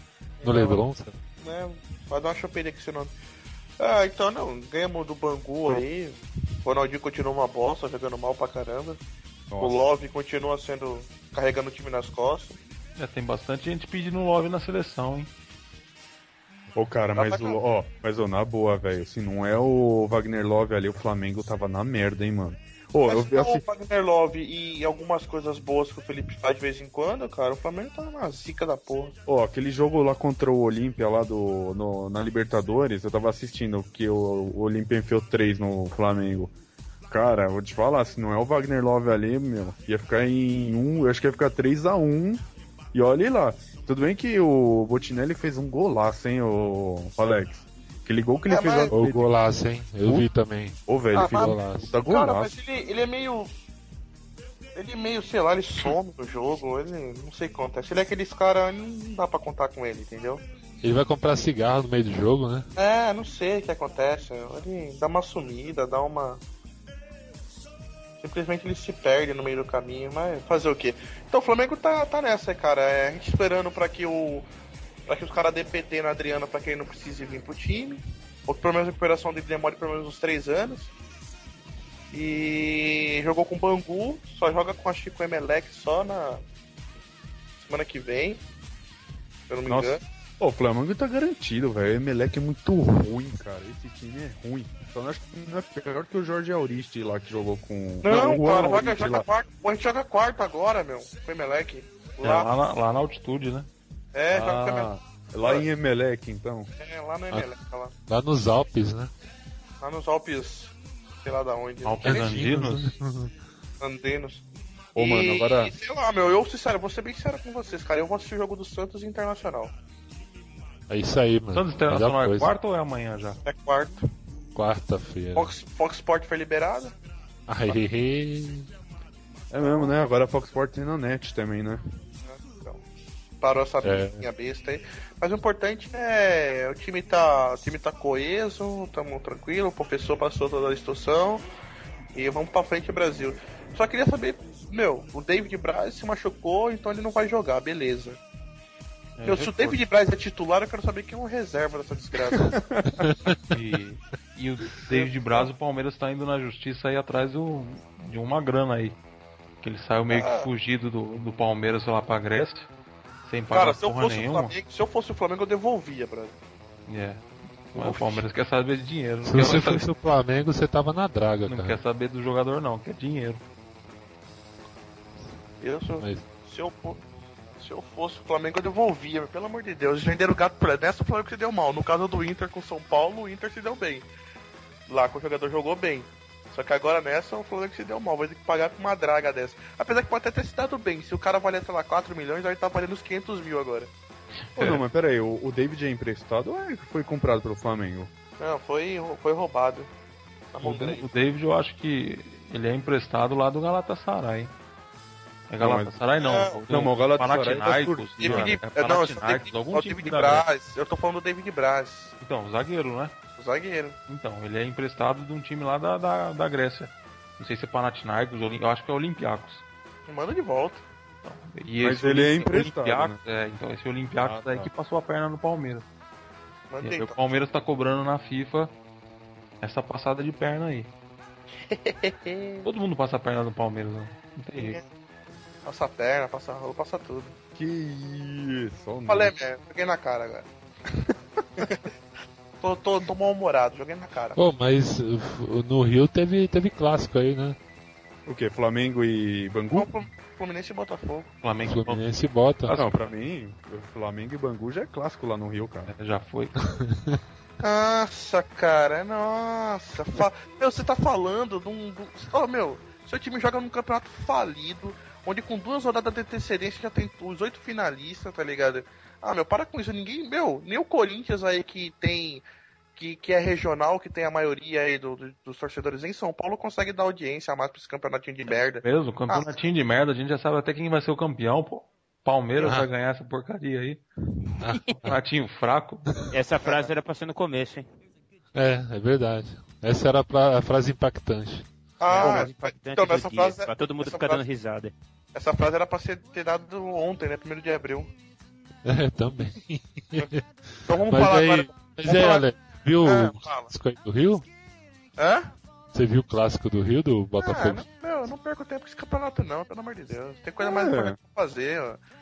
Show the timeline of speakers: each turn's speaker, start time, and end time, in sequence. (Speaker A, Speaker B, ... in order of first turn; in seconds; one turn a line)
Speaker A: 0.4-0.8
Speaker B: 0.4-1.1
Speaker A: 1.4-3.1
Speaker A: 3.8-9.0
Speaker C: 9.5-9.8
Speaker A: 9.6-12.6
Speaker D: 13.0-15.3
Speaker C: 16.7-23.6
Speaker A: 17.1-17.6
Speaker A: 23.1-29.1
Speaker C: 29.2-36.5
Speaker C: 37.1-49.3
Speaker A: 48.5-48.9
Speaker B: 48.9-51.9
Speaker C: 50.9-52.5
Speaker A: 51.1-53.5
Speaker A: 54.7-60.4
Speaker B: 60.8-62.7
Speaker A: 62.8-66.4
Speaker A: 68.2-74.5
Speaker A: 75.1-80.9
Speaker A: 82.1-86.4
Speaker A: 87.6-88.4
Speaker A: 89.5-90.0
Speaker C: 89.7-99.3
Speaker A: 98.0-102.5
Speaker D: 102.2-103.7
Speaker A: 104.1-105.7
Speaker D: 104.3-104.9
Speaker C: 104.4-106.7
Speaker A: 106.8-107.9
Speaker B: 108.1-109.1
Speaker A: 109.8-112.3
Speaker D: 111.8-112.9
Speaker B: 112.0-113.3
Speaker A: 113.8-114.4
Speaker C: 114.9-115.7
Speaker A: 114.9-119.7
Speaker B: 120.9-122.5
Speaker D: 121.5-123.4
Speaker A: 123.4-124.0
Speaker B: 124.5-125.5
Speaker A: 125.3-126.9
Speaker B: 127.5-128.7
Speaker C: 129.5-131.8
Speaker A: 129.6-129.9
Speaker A: 132.2-132.8
Speaker A: 133.4-141.4
Speaker B: 133.8-134.2
Speaker A: 142.1-148.2
Speaker D: 149.2-149.8
Speaker A: 149.2-152.6
Speaker C: 152.3-153.1
Speaker B: 153.0-153.4
Speaker D: 153.5-159.0
Speaker A: 154.9-155.5
Speaker D: 159.6-162.7
Speaker A: 160.1-160.5
Speaker D: 163.2-164.5
Speaker A: 163.5-166.4
Speaker D: 166.9-169.9
Speaker A: 167.7-168.2
Speaker B: 169.2-171.8
Speaker D: 171.4-173.4
Speaker A: 175.6-177.0
Speaker B: 176.0-176.2
Speaker A: 177.6-184.1
Speaker A: 184.9-193.9
Speaker D: 194.5-194.8
Speaker C: 194.6-198.1
Speaker A: 198.4-199.9
Speaker A: 200.5-201.1
Speaker D: 200.6-204.5
Speaker D: 205.5-210.4
Speaker C: 205.6-205.9
Speaker A: 206.2-206.6
Speaker C: 206.7-208.4
Speaker A: 208.2-212.1
Speaker D: 212.2-213.1
Speaker A: 213.4-214.0
Speaker D: 214.1-219.6
Speaker A: 220.1-220.8
Speaker D: 221.2-225.9
Speaker C: 221.8-223.2
Speaker C: 224.2-224.7
Speaker A: 226.7-227.1
Speaker D: 226.8-228.7
Speaker D: 229.6-230.9
Speaker A: 231.6-232.7
Speaker D: 232.6-234.8
Speaker A: 234.6-234.8
Speaker A: 235.6-237.3
Speaker C: 237.5-239.3
Speaker A: 239.1-240.5
Speaker A: 241.6-241.9
Speaker A: 242.6-244.4
Speaker B: 244.4-247.6
Speaker C: 248.2-249.9
Speaker A: 249.7-251.3
Speaker D: 251.4-252.0
Speaker B: 251.7-252.8
Speaker D: 252.6-253.1
Speaker C: 252.7-255.9
Speaker D: 255.9-256.6
Speaker B: 256.7-257.2
Speaker A: 257.6-272.4
Speaker A: 272.9-279.5
Speaker D: 278.8-284.0
Speaker B: 282.6-282.9
Speaker B: 284.6-285.1
Speaker D: 285.0-286.1
Speaker E: 286.3-287.9
Speaker B: 288.5-291.7
Speaker A: 292.0-294.4
Speaker E: 292.1-294.9
Speaker A: 295.4-298.1
Speaker B: 298.9-304.4
Speaker A: 300.9-302.4
Speaker A: 303.0-303.7
Speaker A: 305.2-305.5
Speaker B: 305.9-307.9
Speaker A: 307.4-312.0
Speaker C: 310.6-311.2